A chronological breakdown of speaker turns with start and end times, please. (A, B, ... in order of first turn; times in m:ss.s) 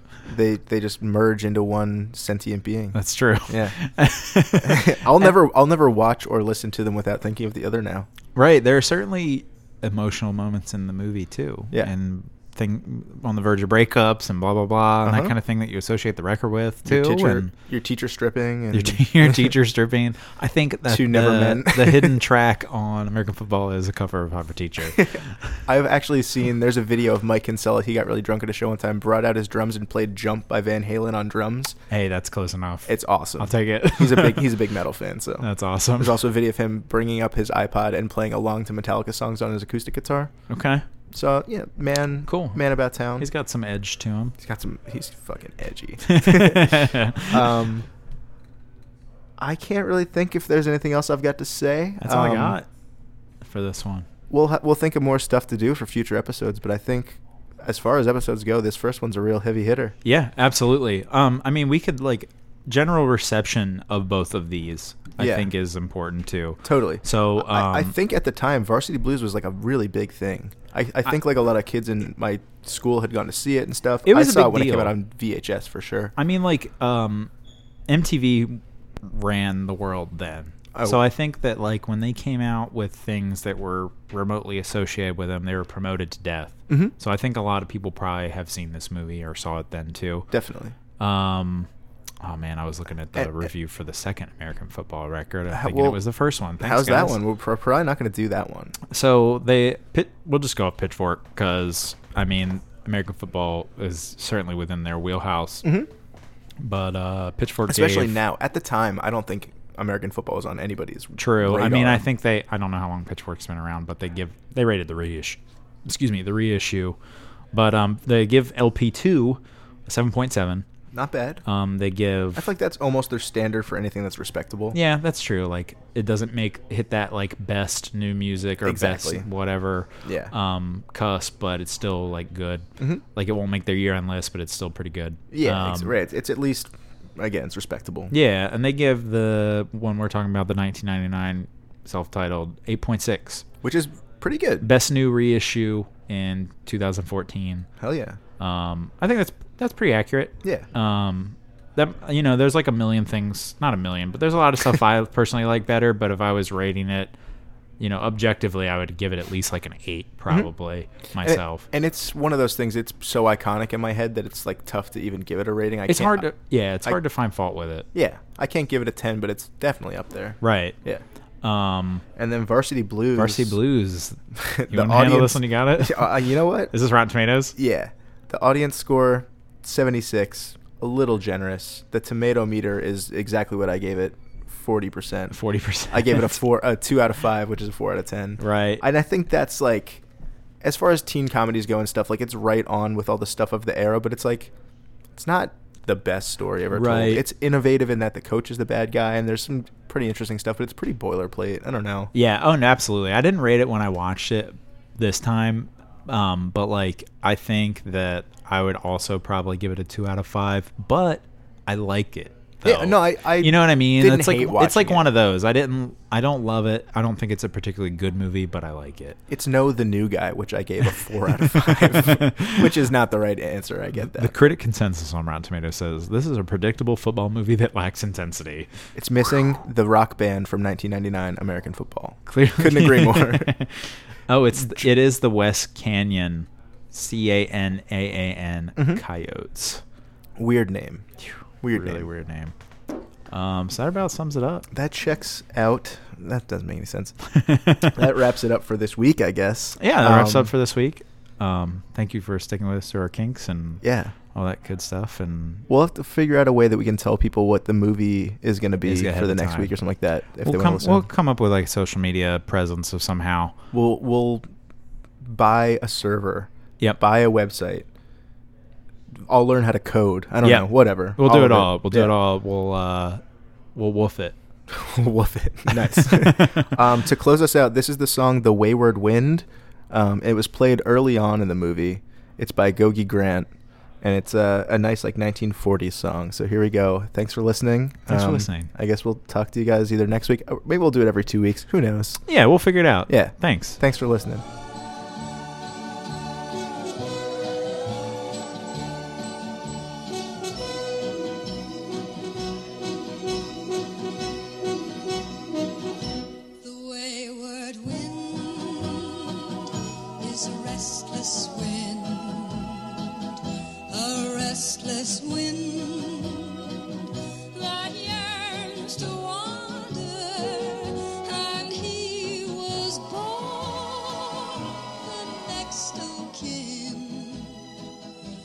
0:00.2-0:03.7 A
0:02.9-0:05.3 B
0:04.6-0:08.1 A
0:08.3-0:17.5 B
0:15.0-0:15.3 A
0:16.8-0:19.5 A
0:18.7-0:25.6 B
0:20.9-0:22.2 A
0:25.0-0:31.8 A
0:31.9-0:34.6 B
0:32.8-0:40.3 A
0:35.4-0:36.2 B
0:40.5-0:40.8 B
0:41.1-0:43.3 A
0:42.2-0:42.6 B
0:43.2-0:44.3 B
0:44.4-0:47.8 A
0:46.0-0:47.6 B
0:49.4-0:52.6 A
0:52.0-0:52.7 B
0:53.4-0:54.1 B
0:54.3-1:00.0 A
1:00.0-1:07.9 B
1:05.2-1:05.5 A
1:06.6-1:16.1 A
1:14.0-1:14.9 B
1:16.2-1:17.3 B
1:17.9-1:30.3 B
1:20.7-1:21.0 A
1:26.7-1:26.9 A
1:30.3-1:30.7 A
1:31.0-1:31.7 B
1:32.2-1:37.2 B
1:33.2-1:33.5 A
1:35.5-1:36.0 A
1:36.6-1:38.8 A
1:38.9-1:45.6 B
1:45.6-1:45.9 A
1:46.6-1:48.2 B
1:47.7-1:52.0 A
1:51.2-1:57.0 B
1:57.5-2:00.6 B
2:00.9-2:01.4 A
2:01.4-2:02.5 B
2:02.3-2:04.8 A
2:04.7-2:16.0 B
2:08.6-2:09.2 A
2:10.0-2:10.3 A
2:15.3-2:18.1 A
2:18.1-2:23.4 B
2:23.6-2:24.6 A
2:24.6-2:27.7 B
2:27.8-2:28.2 A
2:28.4-2:37.1 B
2:37.8-2:41.6 B
2:41.2-2:46.3 A
2:45.9-2:47.8 B
2:47.9-2:51.0 A
2:50.4-2:50.8 B
2:51.4-2:52.0 B
2:52.2-2:53.6 A
2:53.1-2:57.5 B
2:54.3-2:56.7 A
2:57.6-3:05.4 A
3:05.3-3:06.4 B
3:05.9-3:10.0 A
3:08.4-3:08.8 B
3:10.6-3:14.5 A
3:15.2-3:22.1 A
3:16.7-3:17.2 B
3:22.1-3:39.2 B
3:32.6-3:35.0 A
3:39.3-3:44.3 A
3:41.3-3:42.8 B
3:44.0-3:48.7 B
3:48.9-3:53.5 A
3:52.3-3:59.8 B
3:58.8-3:59.0 A
4:00.4-4:01.0 A
4:01.2-4:02.5 B
4:01.6-4:02.1 A
4:03.3-4:04.6 B
4:04.7-4:07.1 A
4:07.3-4:08.0 B
4:07.8-4:10.5 A
4:09.8-4:15.7 B
4:13.8-4:14.1 A
4:15.7-4:21.1 A
4:18.8-4:19.7 B
4:20.4-4:23.6 B
4:23.7-4:24.5 A
4:25.2-4:27.9 A
4:29.2-4:32.1 A
4:30.4-4:33.2 B
4:33.7-4:34.4 B
4:34.7-4:43.5 A
4:35.8-4:36.8 B
4:44.0-4:52.2 A
4:48.1-4:48.7 B
4:52.2-4:53.8 B
4:53.1-4:54.4 A
5:06.6-5:09.7 C
5:10.2-5:13.3 C
5:13.9-5:16.8 C
5:17.5-5:27.8 C